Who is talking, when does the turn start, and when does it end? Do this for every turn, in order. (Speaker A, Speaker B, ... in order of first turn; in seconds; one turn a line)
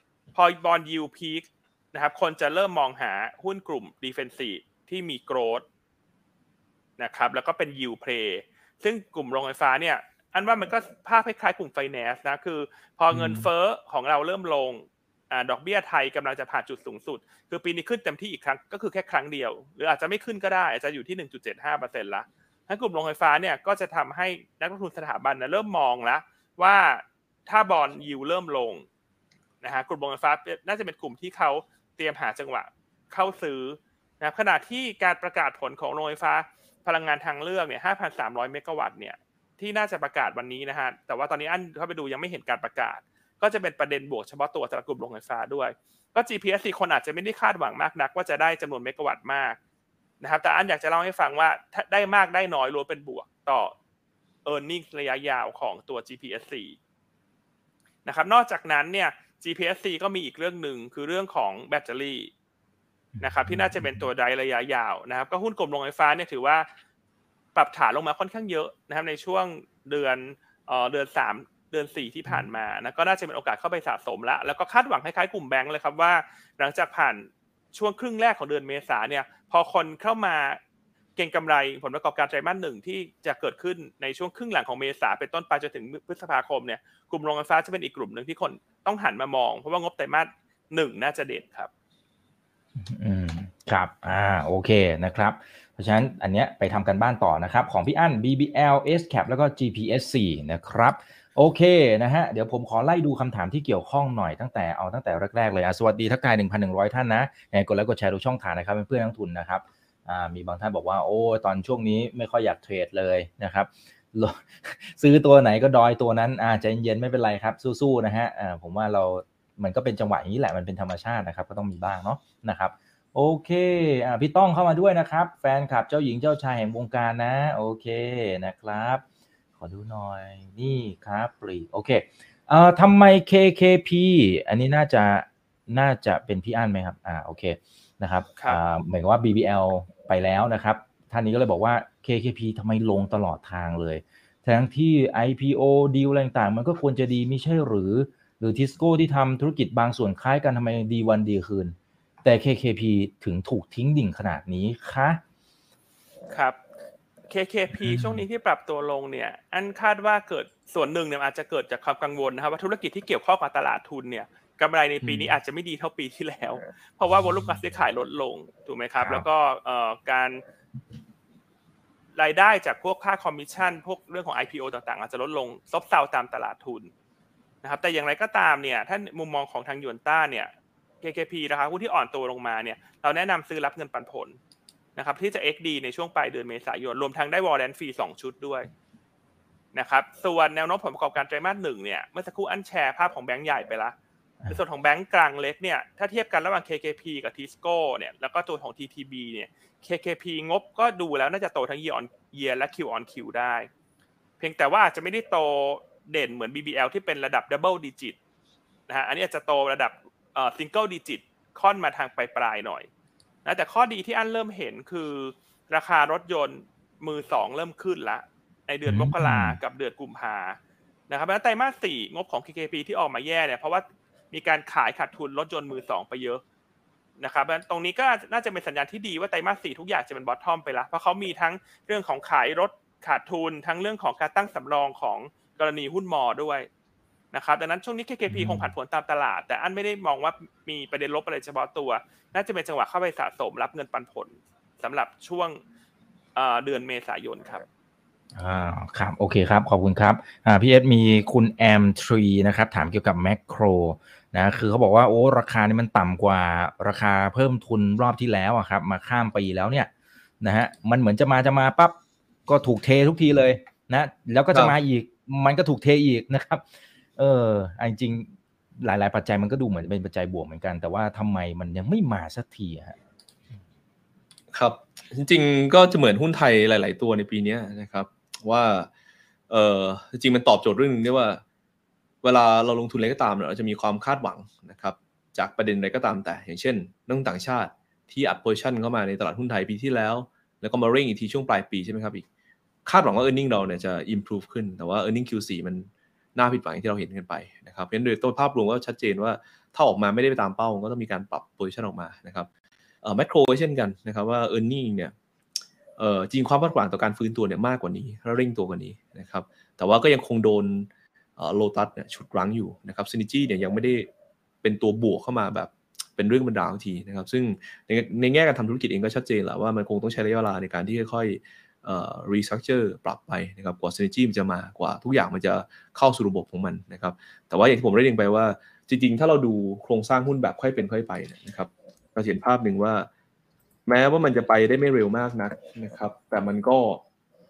Speaker A: 0.3-5.6
Speaker A: 7.0-28.8
Speaker B: 13.1-13.5
Speaker A: 29.6-49.6
Speaker A: 50.2-53.7
Speaker A: 54.4-56.8
Speaker A: 58.0-62.3
Speaker C: 63.1-64.0
Speaker A: 63.2-66.7
Speaker A: 67.5-80.6
Speaker A: 81.2-91.7
Speaker C: 92.8-129.0
Speaker C: 129.6-155.2
Speaker A: 156.3-156.6
Speaker A: 157.3-170.4
Speaker C: 157.7-158.2
Speaker C: 165.0-165.3
Speaker A: 172.2-176.9
Speaker A: 177.6-180.5
Speaker A: 181.0-184.4
Speaker A: 184.9-188.7
Speaker A: 189.7-193.9
Speaker A: 194.5-203.7
Speaker A: 204.4-208.2
Speaker A: 208.9-212.9
Speaker A: 213.4-220.6
Speaker C: 218.8-219.6
Speaker A: 221.1-226.4
Speaker A: 227.2-236.7
Speaker A: 237.3-245.6
Speaker C: 238.3-238.7
Speaker A: 246.3-247.6
Speaker C: 248.3-259.9
Speaker C: 260.4-261.9
Speaker C: 262.5-266.6
Speaker C: 267.2-273.0
Speaker B: 274.5-278.9
Speaker B: 279.5-281.4
Speaker B: 282.2-292.2
Speaker B: 292.8-302.5
Speaker B: 303.0-305.1
Speaker B: 306.0-314.1
Speaker B: 314.6-333.1
Speaker B: 333.9-337.0